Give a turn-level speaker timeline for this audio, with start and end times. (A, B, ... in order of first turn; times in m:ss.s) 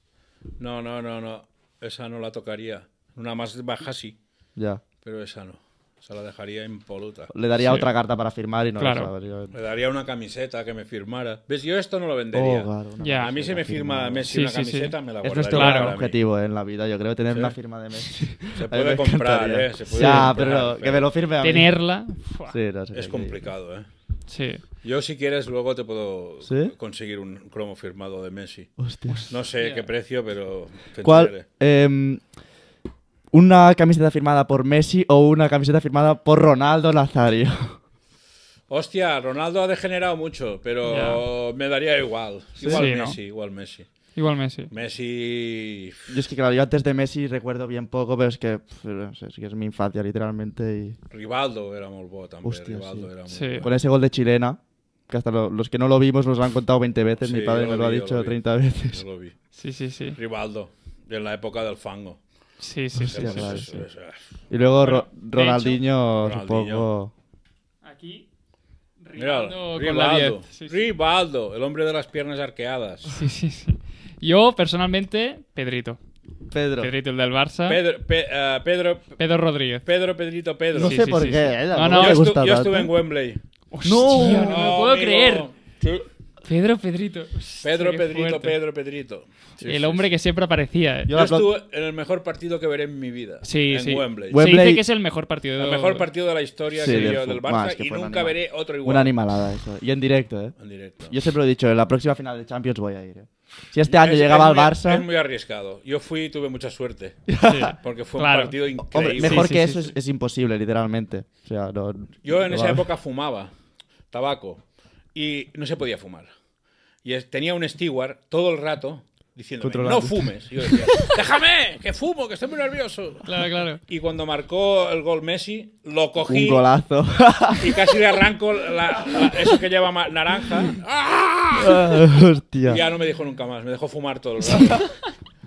0:00.6-0:04.2 A
0:04.6-0:04.8 B
0:05.0-0:07.8 A
0:07.3-0:09.6 B
0:08.8-0:09.1 C
0:09.5-0:16.2 A
0:12.3-0:14.3 B
0:13.0-0:13.4 C
0:14.3-0:15.0 C
0:15.2-0:21.7 B
0:15.5-0:16.0 C
0:17.3-0:17.6 A
0:18.6-0:21.1 A
0:19.9-0:20.4 C
0:21.4-0:22.6 C
0:22.5-0:23.5 B
0:22.9-0:23.9 A
0:24.3-0:24.6 C
0:24.8-0:28.7 A
0:26.4-0:26.7 B
0:28.8-0:29.3 B
0:29.1-0:29.9 C
0:29.3-0:31.4 A
0:31.0-0:32.4 B
0:33.3-0:37.8 B
0:38.7-0:43.9 A
0:40.9-0:41.2 C
0:42.6-0:42.9 B
0:42.6-0:43.2 C
0:44.2-0:44.7 C
0:44.7-0:46.1 A
0:46.1-0:51.0 B
0:51.1-0:53.7 A
0:52.4-0:59.0 B
0:53.3-0:53.6 C
0:57.2-0:59.4 A
0:59.6-1:00.2 C
1:00.2-1:02.2 A
1:02.6-1:03.8 C
1:03.0-1:04.2 A
1:03.0-1:03.8 B
1:04.5-1:07.1 B
1:04.8-1:05.8 C
1:06.2-1:06.9 A
1:07.8-1:08.3 C
1:09.0-1:10.8 C
1:09.2-1:13.2 A
1:13.1-1:16.0 C
1:16.5-1:16.9 B
1:16.8-1:17.8 C
1:17.7-1:19.2 A
1:19.2-1:19.9 C
1:19.8-1:21.1 A
1:20.7-1:22.9 B
1:20.8-1:22.2 C
1:21.9-1:23.4 A
1:23.7-1:25.5 C
1:23.8-1:24.6 B
1:24.1-1:26.1 A
1:26.4-1:28.6 C
1:27.6-1:30.1 A
1:29.6-1:31.1 C
1:31.1-1:31.5 B
1:31.1-1:34.4 A
1:33.4-1:36.1 C
1:34.3-1:34.8 B
1:35.6-1:39.2 A
1:36.7-1:45.1 B
1:40.6-1:41.1 A
1:43.9-1:49.5 A
1:47.3-1:47.7 B
1:47.4-1:49.9 C
1:48.8-1:52.9 B
1:52.2-1:53.5 A
1:54.1-1:56.3 A
1:57.0-2:06.7 A
1:59.6-2:01.0 B
2:03.3-2:03.8 C
2:06.3-2:08.0 B
2:07.6-2:12.0 A
2:11.6-2:12.8 B
2:12.6-2:15.1 A
2:14.5-2:14.9 B